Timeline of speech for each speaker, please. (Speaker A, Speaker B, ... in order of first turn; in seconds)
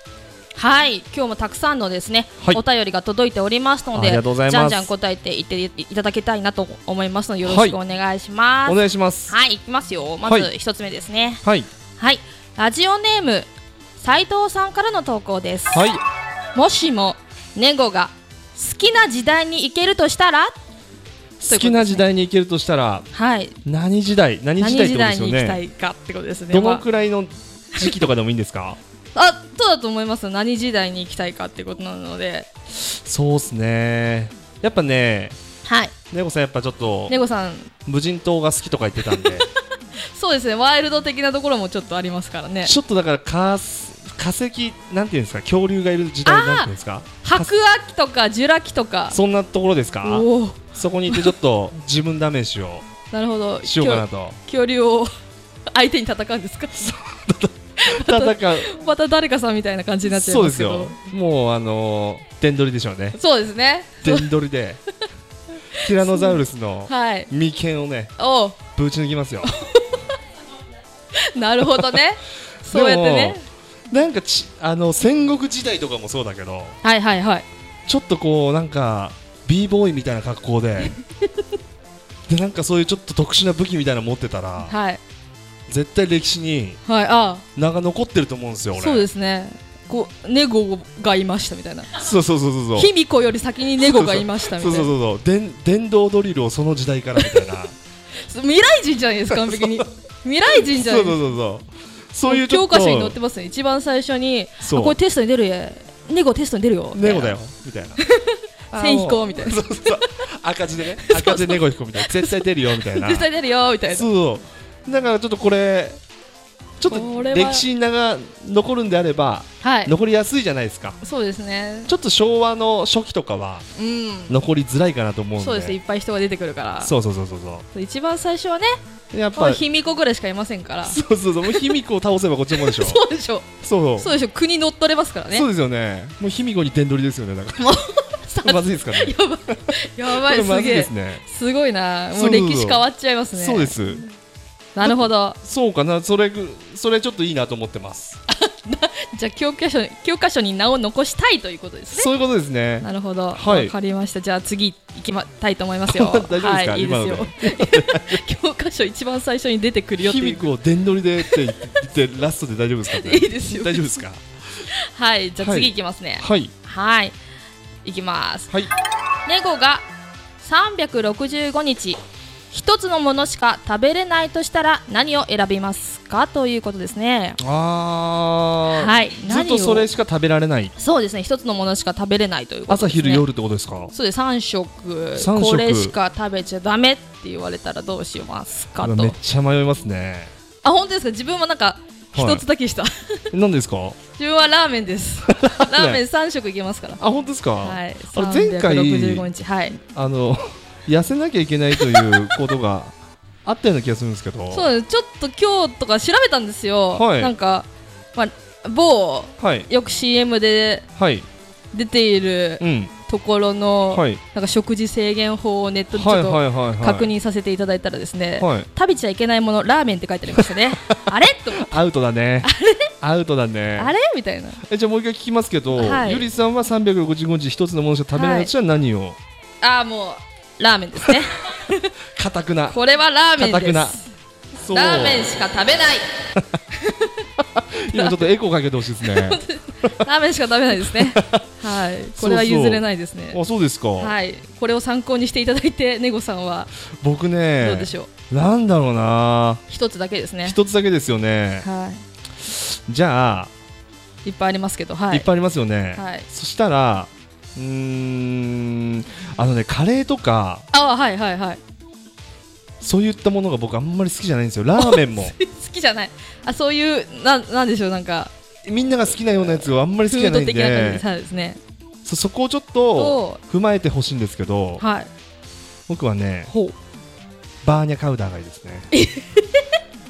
Speaker A: 0.6-11.4, 12.0-15.9, 16.5-20.5, 21.5-22.1, 23.1-23.6, 24.6-26.8, 29.1-32.5, 35.6-35.9, 37.1-37.7, 39.0-39.4, 40.0-42.7, 46.2-46.7, 47.2-49.2, 50.0-51.3, 53.1-55.1, 55.7-56.9, 57.8-61.0, 63.1-64.3, 65.7-67.3, 68.2-68.6, 69.4-70.1, 71.1-73.4, 76.8-77.5, 84.7-85.0, 86.8-87.4, 88.7-91.9, 92.7-94.9, 98.2-101.2, 102.3-107.3, 108.0-109.6, 111.0-114.1, 116.9-117.6, 119.6-119.9, 121.0-121.9, 123.7-124.4, 125.4-126.9, 127.7-128.8, 129.3-131.8, 132.5-135.5, 137.6-143.8, 144.7-145.4, 148.3-152.1, 152.8-160.4, 161.2-161.6, 162.9-164.0, 164.7-167.2, 167.8-168.5, 169.2-169.9, 170.4-172.0, 172.5-177.4, 178.7-179.9, 180.8-183.2, 183.9-189.2, 190.6-193.3, 194.2-197.0, 197.6-199.8, 204.5-210.9, 211.7-221.7, 222.4-222.9, 223.8-224.6, 225.7-226.3, 228.1-228.5, 229.6-231.9, 232.7-234.0, 234.7-236.1, 236.8-237.2, 237.9-238.2, 239.0-243.4, 244.0-246.7, 247.6-248.1, 249.7-250.6, 251.6-252.0, 254.2-255.3, 255.9-256.2, 260.7-261.6, 264.8-268.3, 269.3-271.6, 272.9-273.4, 274.8-275.1, 276.5-276.7, 278.9-279.6
Speaker B: 3.9-4.9, 7.5-7.8, 8.7-9.3, 10.2-10.5, 15.7-16.0, 21.4-23.1, 23.6-25.6, 26.5-28.8, 32.8-35.4, 36.1-37.1, 37.9-39.5, 42.6-47.5, 49.1-52.8, 53.6-54.4, 56.8-58.7, 60.0-63.2, 64.0-64.8, 65.8-68.1, 68.7-69.5, 71.7-72.0, 72.6-73.4, 73.9-76.8, 77.9-80.9, 82.3-84.7, 85.7-86.8, 87.5-89.1, 91.9-92.9, 93.8-97.7, 99.3-99.8, 100.5-103.2, 104.6-105.0, 106.9-108.0, 108.7-113.3, 113.9-116.0, 116.8-121.0, 121.9-123.6, 124.3-125.8, 126.8-127.6, 129.1-129.6, 130.8-133.0, 133.6-134.1, 135.3-137.8, 138.4-139.2, 139.7-141.2, 142.1-144.1, 144.8-148.2, 151.9-153.7, 155.9-158.2, 160.0-164.2, 165.4-166.5, 177.4-180.7, 182.7-183.9, 185.2-185.9, 188.8-190.3, 192.1-192.4, 193.3-194.0, 195.3-196.0, 197.0-199.3, 199.8-204.7, 206.9-207.3, 209.4-209.7, 210.9-211.3, 212.6-212.9, 213.9-214.2, 215.9-217.1, 218.4-218.7, 220.9-223.9, 224.6-229.2, 232.1-232.8, 233.4-234.0, 234.5-235.3, 237.5-240.0, 240.7-241.4, 242.2-244.1, 246.9-249.6, 250.4-251.7, 252.4-253.5, 255.1-260.6, 262.8-265.3, 268.6-271.0, 272.0-274.8, 275.9-276.5, 277.6-278.9